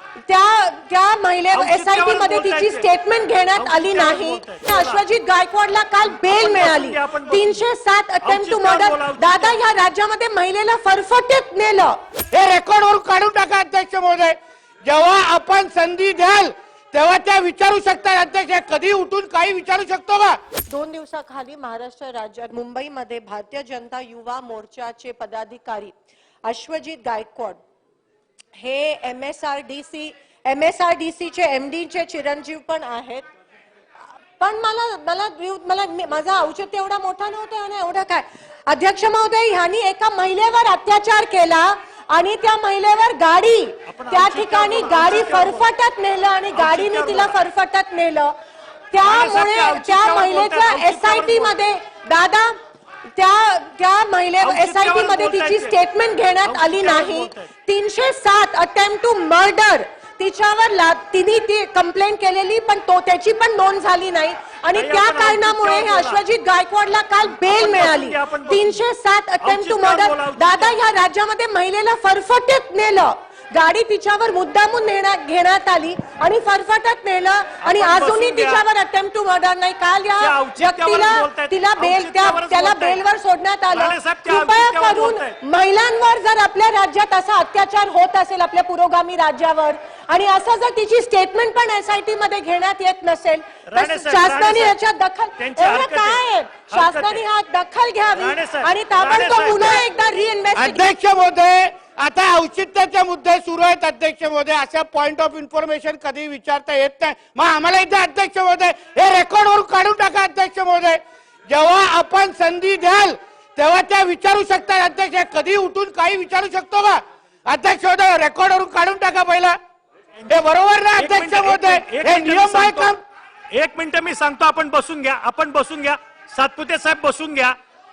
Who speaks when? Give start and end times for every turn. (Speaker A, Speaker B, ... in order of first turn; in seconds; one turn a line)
Speaker A: 0.3-12.0
Speaker B: 1.5-2.9
Speaker B: 3.5-5.0
Speaker B: 6.2-7.6
Speaker B: 8.2-9.6
Speaker C: 12.3-20.4
Speaker A: 20.7-25.9
Speaker A: 26.4-27.6
Speaker A: 28.6-33.3
Speaker A: 34.4-48.3
Speaker B: 43.9-45.7
Speaker B: 46.5-47.4
Speaker A: 48.9-52.5
Speaker B: 49.0-51.6
Speaker A: 53.2-100.9
Speaker B: 54.4-55.8
Speaker B: 56.4-57.5
Speaker B: 64.7-66.2
Speaker B: 67.3-68.8
Speaker B: 69.4-70.8
Speaker B: 77.6-78.6
Speaker B: 80.2-83.0
Speaker B: 83.7-85.4
Speaker B: 93.7-94.8
Speaker B: 95.4-97.2
Speaker B: 98.1-99.8
Speaker C: 100.6-119.6
Speaker C: 120.3-123.0
Speaker B: 121.0-123.0
Speaker B: 123.5-127.6